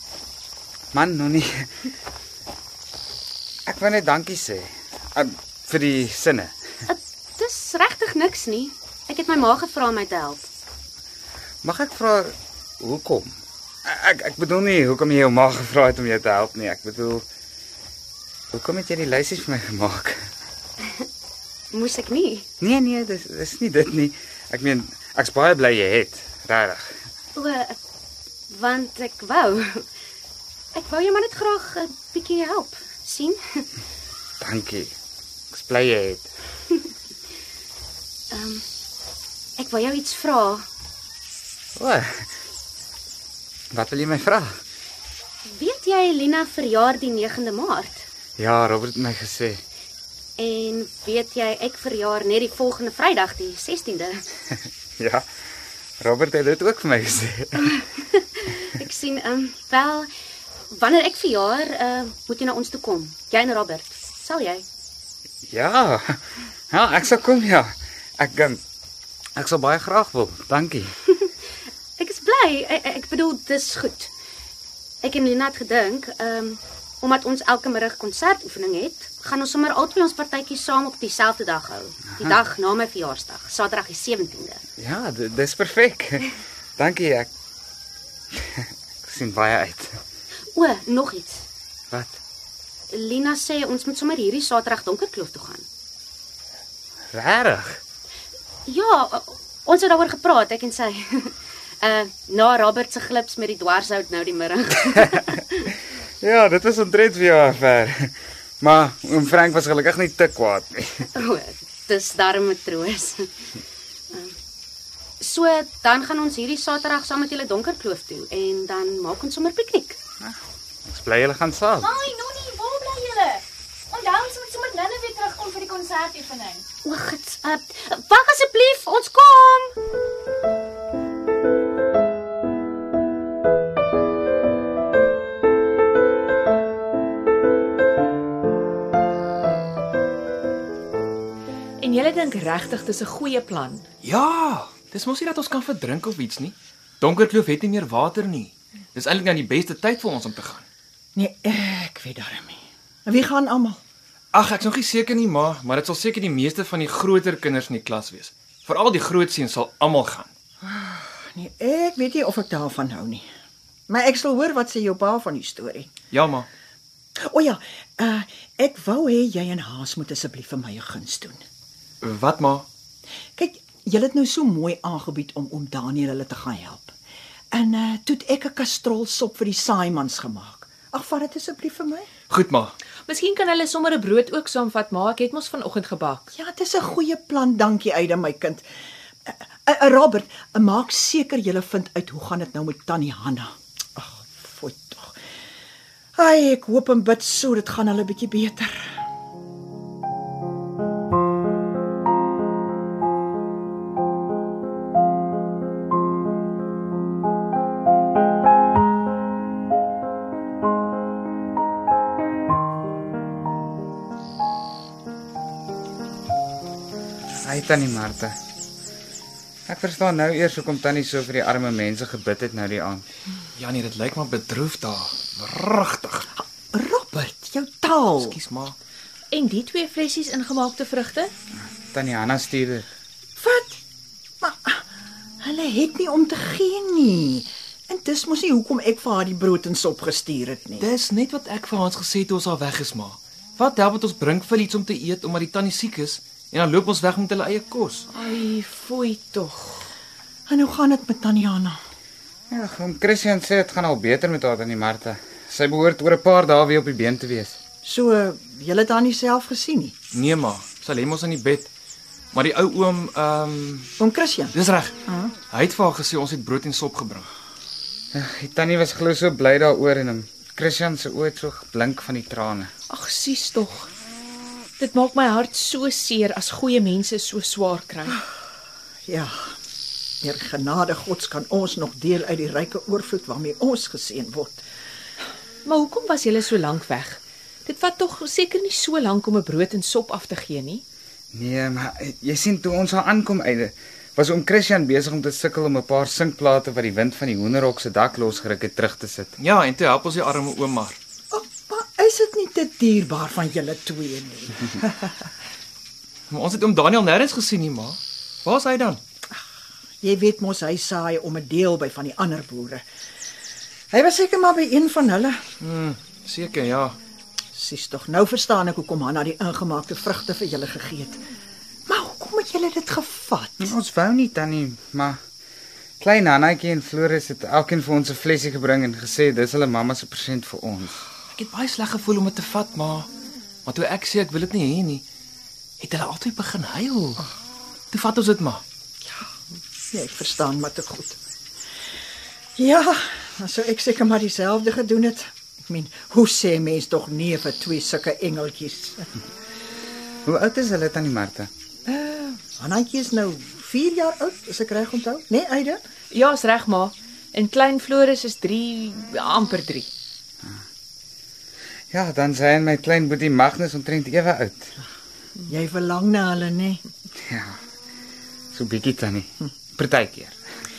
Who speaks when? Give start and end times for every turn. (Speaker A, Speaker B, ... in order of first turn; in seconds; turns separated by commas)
Speaker A: 0.9-1.7, Speaker A: 3.7-6.5, Speaker B: 6.9-10.4, Speaker A: 11.6-13.3, Speaker A: 13.8-17.2, Speaker A: 18.5-20.2, Speaker B: 21.7-22.4, Speaker A: 22.6-26.9, Speaker B: 27.4-27.7, Speaker B: 28.5-29.8, Speaker B: 30.7-33.6, Speaker A: 34.4-34.9, Speaker A: 35.5-36.3, Speaker B: 38.3-38.6, Speaker B: 39.6-40.6, Speaker A: 41.8-42.2, Speaker A: 43.7-44.5, Speaker B: 45.5-48.0, Speaker A: 48.4-49.6, Speaker B: 50.4-54.2, Speaker A: 55.0-55.2, Speaker A: 56.0-57.6, Speaker B: 58.1-60.1, Speaker B: 60.7-64.6, Speaker A: 65.5-66.2, Speaker A: 66.7-68.6, Speaker A: 69.4-70.9, Speaker B: 72.0-74.1, Speaker B: 75.0-84.6, Speaker A: 84.8-87.3, Speaker A: 88.5-89.9, Speaker B: 90.5-91.4, Speaker A: 91.9-92.2, Speaker B: 92.9-95.6, Speaker A: 97.1-97.8, Speaker B: 98.7-105.7, Speaker A: 106.2-111.0, Speaker B: 111.1-113.3, Speaker B: 115.2-120.0, Speaker A: 120.2-122.0, Speaker C: 121.8-126.6, Speaker B: 126.8-129.7, Speaker D: 141.8-143.8, Speaker E: 144.0-150.6, Speaker F: 151.2-153.8, Speaker E: 154.3-160.3, Speaker F: 160.6-163.2, Speaker F: 163.9-165.9, Speaker E: 166.1-166.5, Speaker F: 167.2-171.4, Speaker E: 172.0-172.7, Speaker F: 173.4-176.9, Speaker F: 177.5-182.1, Speaker E: 182.3-182.7, Speaker D: 183.1-186.2, Speaker F: 186.3-188.6, Speaker F: 189.3-195.1, Speaker F: 196.2-198.9, Speaker A: 217.4-218.3, Speaker A: 219.7-223.0, Speaker E: 223.6-226.3, Speaker F: 226.7-228.3, Speaker E: 228.2-228.8, Speaker D: 229.3-231.3, Speaker A: 231.9-232.9, Speaker F: 233.4-233.8, Speaker F: 234.4-234.8, Speaker F: 235.4-240.9, Speaker E: 240.8-248.1, Speaker D: 248.1-249.9, Speaker F: 250.5-251.8, Speaker A: 252.5-257.6, Speaker F: 257.8-259.9, Speaker E: 260.1-261.7, Speaker E: 262.3-263.9, Speaker F: 264.0-264.5, Speaker E: 264.5-264.9, Speaker F: 265.1-265.3, Speaker E: 265.5-267.3, Speaker A: 268.1-272.7, Speaker D: 272.9-273.9, Speaker D: 274.8-278.2, Speaker F: 279.1-279.3, Speaker F: 280.2-284.6, Speaker D: 285.6-290.8, Speaker A: 291.3-299.3, Speaker E: 299.4-301.0, Speaker F: 301.3-305.1, Speaker E: 306.3-309.0, Speaker F: 310.0-312.8, Speaker F: 313.9-315.4, Speaker E: 315.6-316.9, Speaker F: 317.5-321.2, Speaker F: 321.9-323.7, Speaker A: 323.6-325.2, Speaker A: 326.0-331.1, Speaker E: 331.3-333.1, Speaker E: 333.6-335.0, Speaker E: 335.8-337.2, Speaker E: 337.9-338.6, Speaker F: 339.9-341.2, Speaker F: 342.6-349.0, Speaker A: 350.2-351.5, Speaker F: 351.9-355.8, Speaker D: 356.1-359.9, Speaker A: 361.9-364.7, Speaker F: 365.5-366.8, Speaker A: 367.3-367.5, Speaker A: 368.5-370.4